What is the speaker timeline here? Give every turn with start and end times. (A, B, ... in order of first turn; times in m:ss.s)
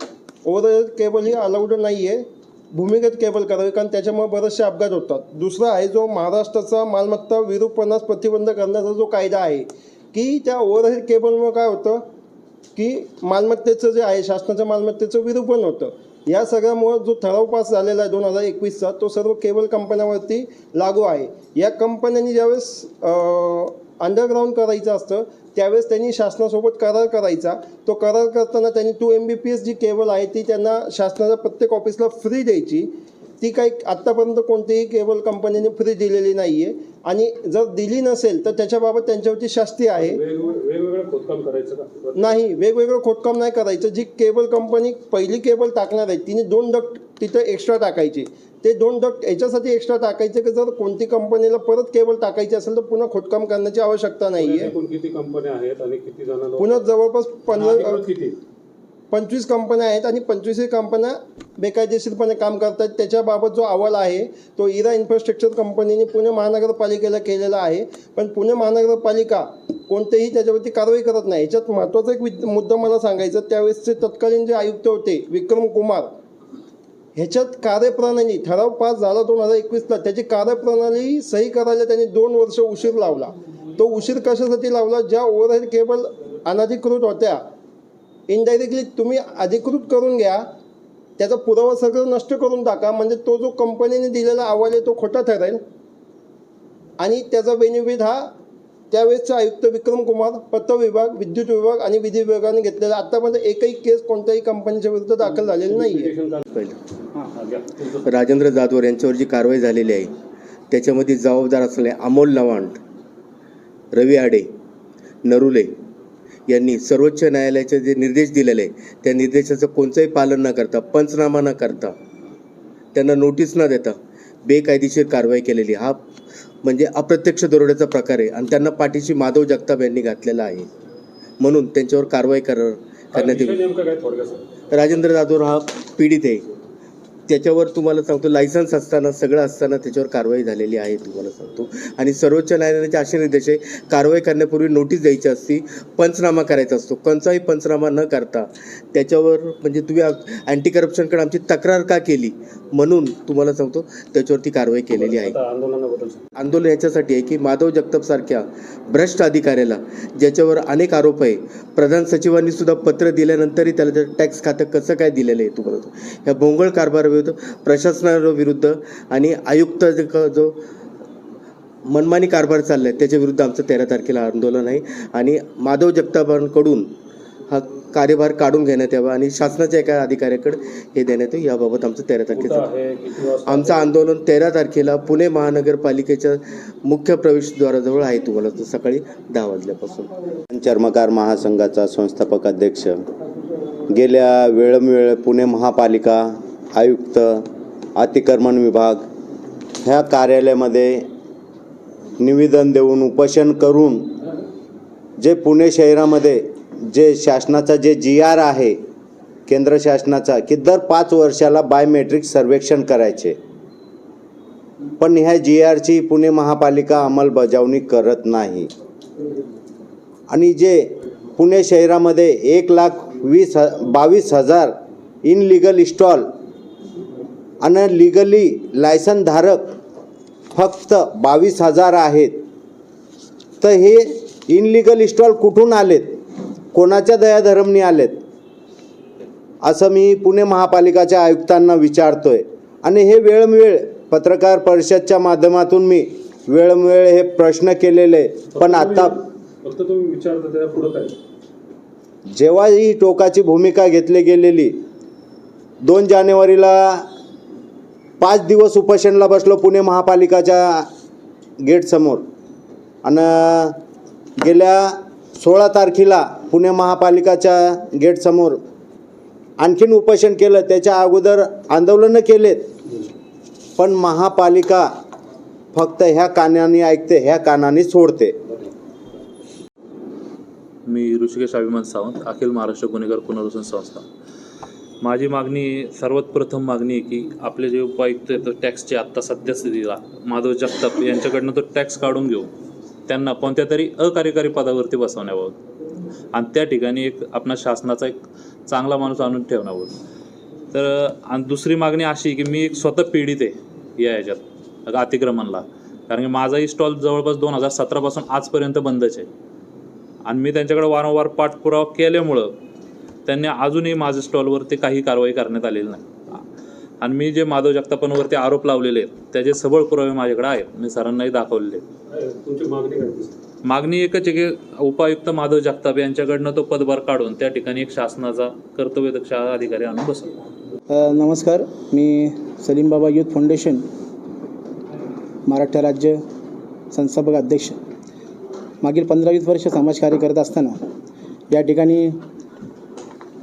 0:00.4-0:12.0 A
0:12.8-0:40.2 A
0:40.0-0:42.4 B
0:42.1-0:54.7 A
0:54.4-0:56.8 B
0:56.6-0:58.0 A
0:57.5-0:58.4 B
0:59.1-1:16.1 A
1:17.2-1:27.4 A
1:28.3-1:30.4 A
1:31.2-1:35.6 A
1:37.0-1:38.3 A
1:38.9-1:46.1 A
1:45.5-1:46.4 B
1:46.5-1:46.8 C
1:47.2-1:48.0 B
1:48.0-1:50.1 C
1:50.7-1:52.8 C
1:53.9-1:54.5 C
1:55.2-1:55.7 C
1:56.5-2:01.9 C
2:02.9-2:06.0 C
2:06.6-2:10.7 C
2:11.4-2:13.7 C
2:13.1-2:14.4 B
2:14.7-2:16.4 C
2:17.3-2:35.4 C
2:34.9-2:36.2 B
2:36.4-2:50.6 C
2:51.9-2:56.8 C
2:57.5-3:02.7 C
3:02.3-3:04.0 B
3:03.4-3:10.1 C
3:10.5-3:13.0 D
3:13.9-3:19.0 D
3:19.8-3:21.0 D
3:22.2-3:24.1 D
3:25.2-3:28.8 D
3:29.5-3:33.4 D
3:35.0-3:38.7 D
3:40.3-3:46.2 D
3:47.6-3:49.7 D
3:50.5-3:52.4 D
3:53.6-3:56.2 D
3:56.7-3:58.2 D
3:59.6-4:09.2 D
4:08.5-4:11.2 B
4:12.3-4:14.7 D
4:15.8-4:17.0 D
4:18.2-4:20.9 D
4:21.6-4:22.2 D
4:23.0-4:23.8 D
4:24.4-4:28.6 D
4:29.6-4:32.7 D
4:33.8-4:34.9 D
4:35.7-4:38.4 D
4:40.9-4:44.0 E
4:45.0-4:52.5 E
4:53.1-4:55.6 E
4:56.3-4:59.9 E
5:00.7-5:09.3 E
5:10.2-5:12.5 E
5:13.2-5:16.4 E
5:17.0-5:21.8 E
5:22.1-5:23.3 B
5:23.6-5:30.3 E
5:30.9-5:33.8 F
5:35.5-5:36.2 F
5:36.9-5:37.8 F
5:38.8-5:40.8 F
5:41.5-5:42.2 F